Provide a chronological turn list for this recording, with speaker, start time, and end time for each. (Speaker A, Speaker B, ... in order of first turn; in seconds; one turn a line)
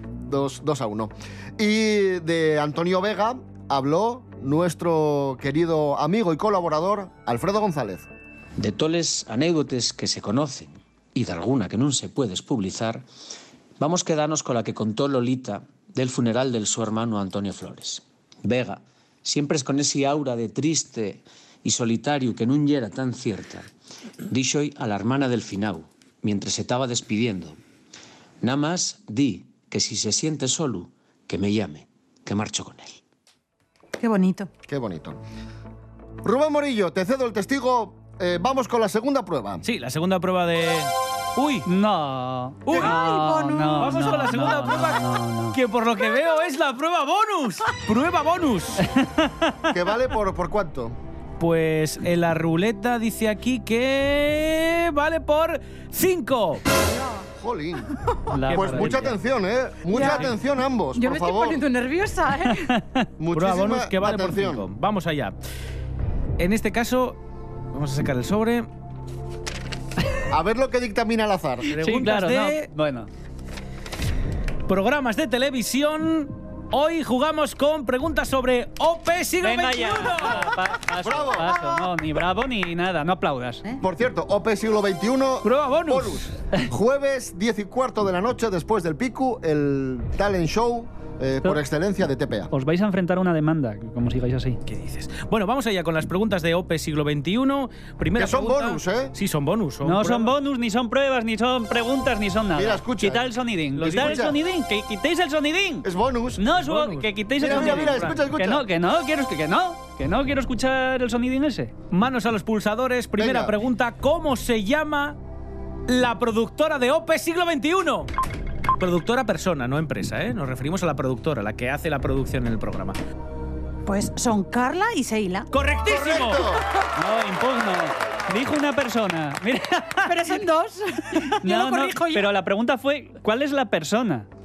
Speaker A: 0.3-8.1
Speaker B: 8.6-13.0
Speaker B: 13.8-23.7
Speaker B: 24.3-27.6
Speaker B: 28.4-33.0
Speaker C: 34.0-34.5
Speaker A: 34.7-35.2
Speaker A: 36.2-39.6
Speaker D: 39.6-41.6
Speaker E: 41.6-45.6
Speaker D: 42.7-43.0
Speaker C: 42.7-44.4
Speaker D: 43.8-48.8
Speaker E: 49.0-49.5
Speaker A: 49.7-51.0
Speaker D: 51.4-56.6
Speaker C: 56.7-57.2
Speaker A: 57.4-57.9
Speaker E: 58.3-59.1
Speaker D: 58.5-59.1
Speaker A: 58.5-61.6
Speaker C: 59.9-60.2
Speaker C: 60.9-62.7
Speaker E: 62.5-63.1
Speaker A: 63.2-64.7
Speaker D: 63.3-65.3
Speaker D: 66.4-67.2
Speaker D: 67.7-68.7
Speaker A: 70.3-71.7
Speaker D: 71.7-72.7
Speaker E: 71.7-73.1
Speaker D: 74.7-80.5
Speaker E: 79.4-83.6
Speaker A: 81.0-81.8
Speaker A: 83.8-92.5
Speaker D: 85.4-86.2
Speaker E: 92.5-94.6
Speaker D: 94.7-100.3
Speaker A: 98.2-99.1
Speaker E: 99.8-111.7
Speaker A: 102.5-104.3
Speaker D: 103.8-104.3
Speaker A: 105.8-106.4
Speaker D: 106.6-108.2
Speaker A: 107.4-108.6
Speaker D: 111.9-115.2
Speaker A: 113.2-113.5
Speaker D: 115.9-118.1
Speaker D: 118.8-123.0
Speaker C: 123.8-125.5
Speaker D: 125.5-126.5
Speaker A: 125.8-126.7
Speaker E: 127.0-130.3
Speaker C: 130.0-132.3
Speaker E: 131.4-134.3